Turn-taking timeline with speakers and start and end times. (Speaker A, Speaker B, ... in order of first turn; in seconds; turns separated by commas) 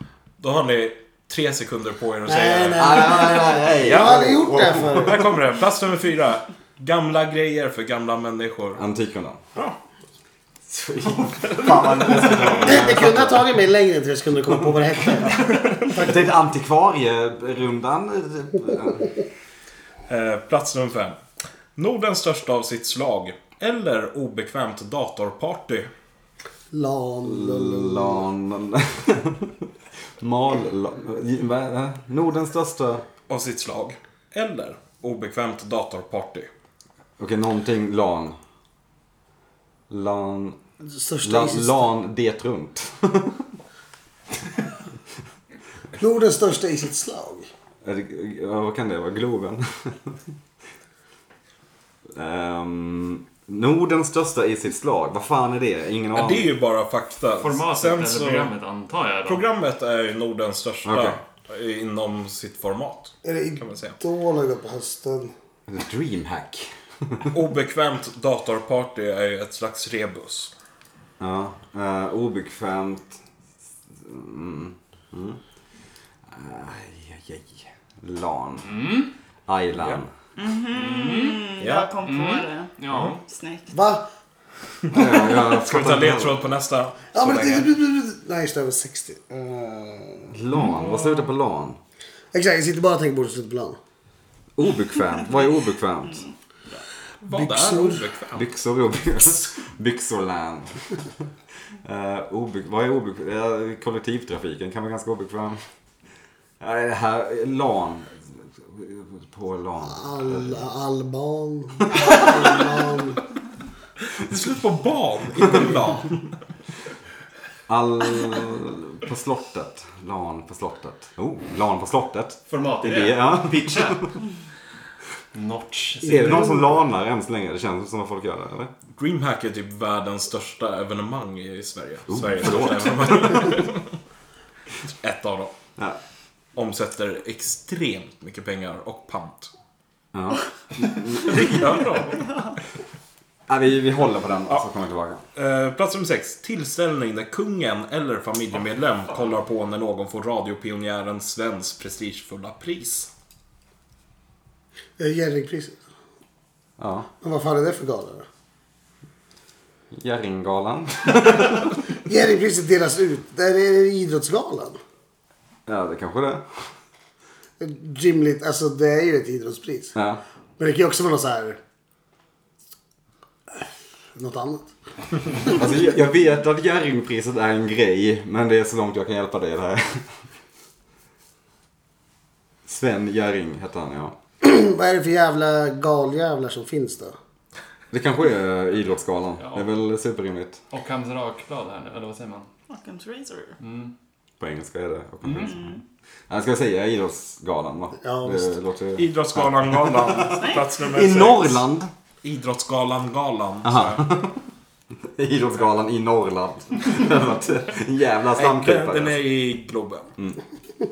Speaker A: 0.4-4.2, Speaker B: 2.2-5.2, Speaker C: 2.8-5.1, Speaker A: 5.0-8.8, Speaker C: 8.7-9.4, Speaker C: 10.7-13.5, Speaker A: 11.5-12.6, Speaker B: 12.6-16.3, Speaker C: 15.8-19.1, Speaker A: 20.1-21.2, Speaker A: 21.8-25.9, Speaker B: 26.7-28.2, Speaker C: 27.2-29.7, Speaker C: 30.2-33.0, Speaker A: 33.3-36.5, Speaker C: 37.2-38.4, Speaker C: 39.9-40.6, Speaker B: 40.9-41.9, Speaker C: 41.2-43.4, Speaker B: 46.0-47.5, Speaker C: 47.8-50.2, Speaker C: 52.1-56.5, Speaker A: 56.1-58.5, Speaker D: 57.4-59.4, Speaker A: 59.2-64.0, Speaker C: 60.9-61.2, Speaker B: 63.2-65.3, Speaker C: 65.7-67.3, Speaker A: 67.3-70.5, Speaker C: 71.2-73.2, Speaker C: 74.0-75.4, Speaker C: 76.3-78.7, Speaker D: 78.6-79.1, Speaker C: 79.5-80.1, Speaker A: 79.8-80.0, Speaker E: 80.4-82.7, Speaker D: 80.7-81.4, Speaker A: 81.6-81.9, Speaker D: 82.0-83.2, Speaker A: 82.9-83.1, Speaker E: 83.2-83.7, Speaker B: 83.7-84.0, Speaker C: 84.9-86.4, Speaker A: 84.9-87.7, Speaker B: 87.1-90.3, Speaker C: 90.3-91.8, Speaker D: 90.5-91.3, Speaker B: 92.3-93.8, Speaker C: 94.5-96.3, Speaker A: 96.7-98.5, Speaker B: 97.3-98.0, Speaker C: 98.3-100.8, Speaker C: 101.8-105.6, Speaker C: 106.6-110.6, Speaker B: 109.8-113.2, Speaker C: 111.9-112.2, Speaker A: 114.2-116.3, Speaker C: 117.7-124.1, Speaker D: 122.5-124.2, Speaker D: 125.3-126.7, Speaker C: 126.0-128.7, Speaker A: 128.9-133.9, Speaker C: 132.1-133.6, Speaker A: 134.8-135.5, Speaker A: 136.5-139.5, Speaker C: 140.1-142.0, Speaker A: 141.2-142.2, Speaker C: 143.5-145.2, Speaker A: 145.3-153.1, Speaker B: 155.0-155.8, Speaker C: 156.8-157.1, Speaker B: 157.2-158.2, Speaker C: 159.9-161.7, Speaker B: 162.1-164.8, Speaker C: 165.7-166.7, Speaker B: 167.6-169.9, Speaker C: 169.9-170.2, Speaker B: 170.6-171.6, Speaker B: 174.1-174.7, Speaker C: 175.5-180.1, Speaker C: 182.7-184.1, Speaker B: 184.4-187.1, Speaker C: 187.9-190.6, Speaker D: 189.4-189.7, Speaker D: 190.7-192.5, Speaker E: 192.7-193.6, Speaker D: 193.6-193.9, Speaker C: 194.4-195.7, Speaker D: 195.2-195.6, Speaker E: 195.5-195.8, Speaker C: 196.3-201.9, Speaker B: 198.0-198.5, Speaker A: 198.9-201.6, Speaker E: 200.4-200.6, Speaker A: 202.2-204.0, Speaker C: 203.6-204.4, Speaker C: 205.1-209.2, Speaker A: 208.3-210.1